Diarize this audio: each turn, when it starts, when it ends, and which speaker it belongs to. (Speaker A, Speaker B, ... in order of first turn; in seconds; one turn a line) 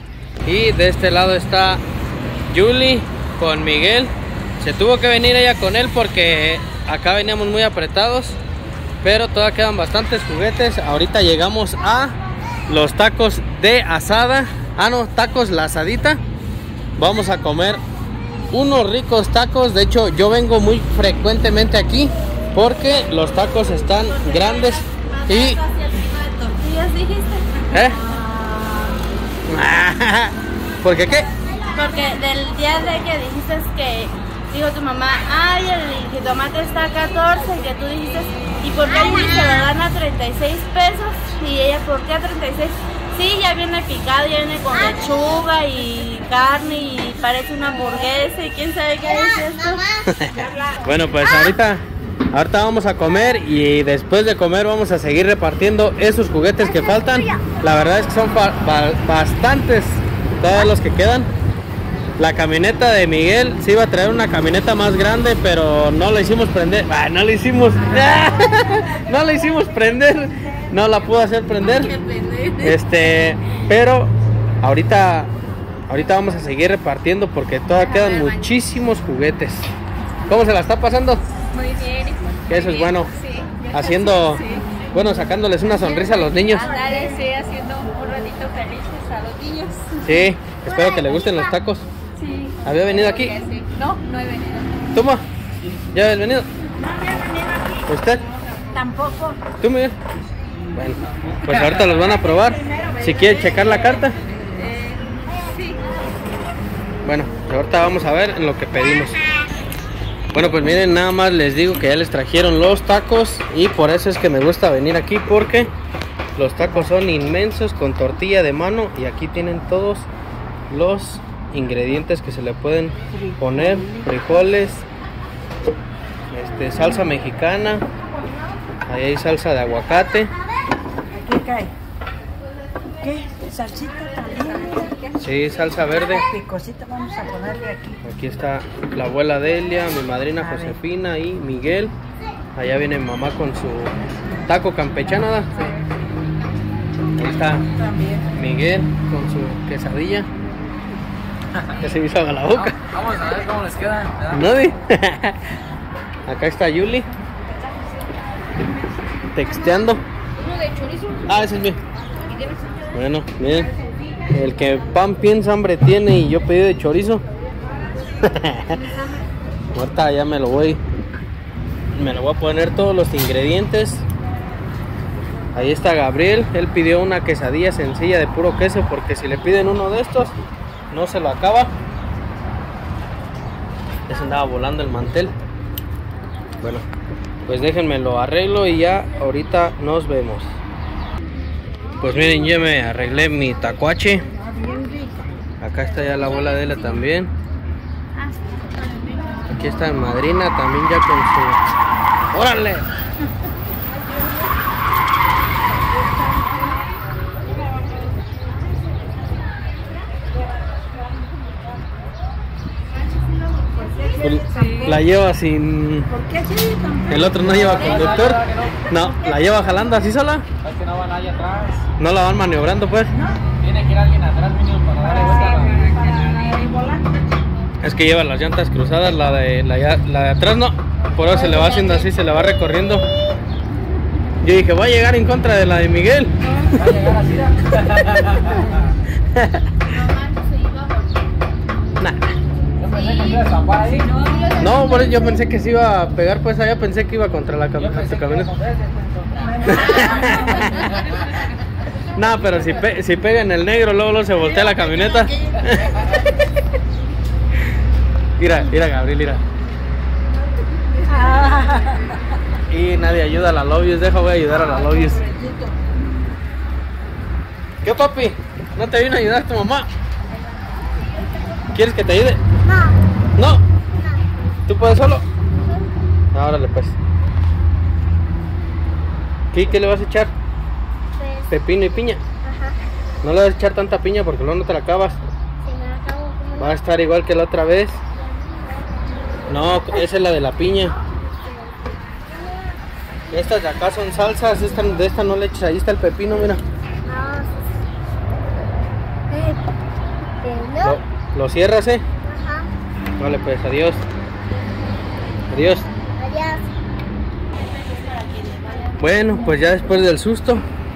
Speaker A: 0.5-1.8
Speaker A: 2.5-8.4
Speaker A: 9.0-12.2
Speaker A: 12.7-16.2
Speaker A: 17.0-17.8
Speaker A: 18.5-25.6
Speaker B: 23.9-29.0
Speaker A: 27.7-28.0
Speaker A: 29.5-31.3
Speaker B: 31.6-50.0
Speaker A: 50.1-61.3
Speaker A: 62.2-71.9
Speaker C: 68.2-69.2
Speaker B: 71.6-72.8
Speaker A: 72.6-75.3
Speaker A: 75.9-79.7
Speaker B: 77.8-78.5
Speaker A: 80.3-81.2
Speaker B: 81.5-84.7
Speaker A: 82.5-83.1
Speaker A: 83.7-86.7
Speaker B: 86.4-90.0
Speaker C: 86.5-87.2
Speaker A: 90.0-91.9
Speaker B: 92.2-94.8
Speaker A: 92.6-93.3
Speaker A: 94.9-95.2
Speaker A: 95.9-96.5
Speaker B: 96.9-97.3
Speaker C: 97.0-97.5
Speaker A: 97.9-98.2
Speaker C: 98.7-99.4
Speaker A: 99.6-100.0
Speaker A: 100.7-104.2
Speaker D: 101.5-101.9
Speaker C: 102.4-103.1
Speaker A: 107.0-109.2
Speaker A: 110.3-115.7
Speaker A: 116.4-120.1
Speaker A: 120.7-124.9
Speaker C: 123.1-124.1
Speaker A: 126.3-127.8
Speaker A: 128.9-130.3
Speaker C: 131.1-131.7
Speaker C: 133.0-135.2
Speaker A: 135.2-136.3
Speaker C: 136.1-138.0
Speaker A: 138.0-141.9
Speaker C: 140.4-140.8
Speaker A: 142.6-144.0
Speaker A: 144.5-145.7
Speaker A: 147.2-147.7
Speaker C: 147.8-148.2
Speaker A: 148.3-150.3
Speaker A: 151.7-152.8
Speaker D: 152.7-154.4
Speaker A: 154.3-155.4
Speaker A: 156.3-157.1
Speaker A: 159.3-160.0
Speaker B: 160.4-161.3
Speaker A: 161.3-161.8
Speaker A: 162.9-163.7
Speaker A: 164.3-167.2
Speaker A: 168.2-168.8
Speaker A: 169.7-170.8
Speaker A: 171.9-174.1
Speaker A: 175.6-180.3
Speaker A: 180.9-181.7
Speaker A: 184.1-185.3
Speaker A: 186.6-186.9
Speaker A: 187.5-190.6
Speaker A: 192.0-194.2
Speaker C: 194.3-195.4
Speaker A: 195.6-197.3
Speaker A: 199.5-201.6
Speaker A: 202.3-202.9
Speaker C: 213.8-215.0
Speaker A: 214.2-216.1
Speaker C: 216.1-218.1
Speaker A: 217.1-220.5
Speaker D: 217.5-218.8
Speaker C: 218.9-219.8
Speaker D: 220.6-221.9
Speaker A: 222.0-223.1
Speaker C: 223.1-223.4
Speaker D: 223.6-225.9
Speaker C: 225.0-227.3
Speaker A: 227.8-233.0
Speaker C: 231.5-231.9
Speaker A: 234.4-236.3
Speaker D: 236.6-238.8
Speaker A: 239.2-239.7
Speaker B: 239.8-241.3
Speaker A: 242.0-242.3
Speaker D: 242.8-244.2
Speaker B: 242.9-243.6
Speaker C: 244.1-244.6
Speaker B: 244.2-245.3
Speaker A: 244.6-248.5
Speaker D: 248.0-249.6
Speaker C: 249.4-250.9
Speaker A: 249.7-251.0
Speaker A: 252.1-256.3
Speaker A: 258.4-259.4
Speaker C: 261.0-262.2
Speaker A: 262.7-265.2
Speaker C: 264.6-265.8
Speaker A: 267.8-269.9
Speaker A: 271.7-272.4
Speaker A: 273.4-273.6
Speaker A: 274.7-275.2
Speaker A: 276.3-277.0
Speaker A: 279.5-280.3
Speaker A: 281.5-282.2
Speaker A: 283.2-285.2
Speaker A: 286.6-288.0
Speaker A: 289.5-290.9
Speaker A: 293.3-296.6
Speaker A: 300.8-302.0
Speaker A: 303.2-304.1
Speaker A: 305.5-305.9
Speaker B: 308.2-308.6
Speaker A: 309.0-310.7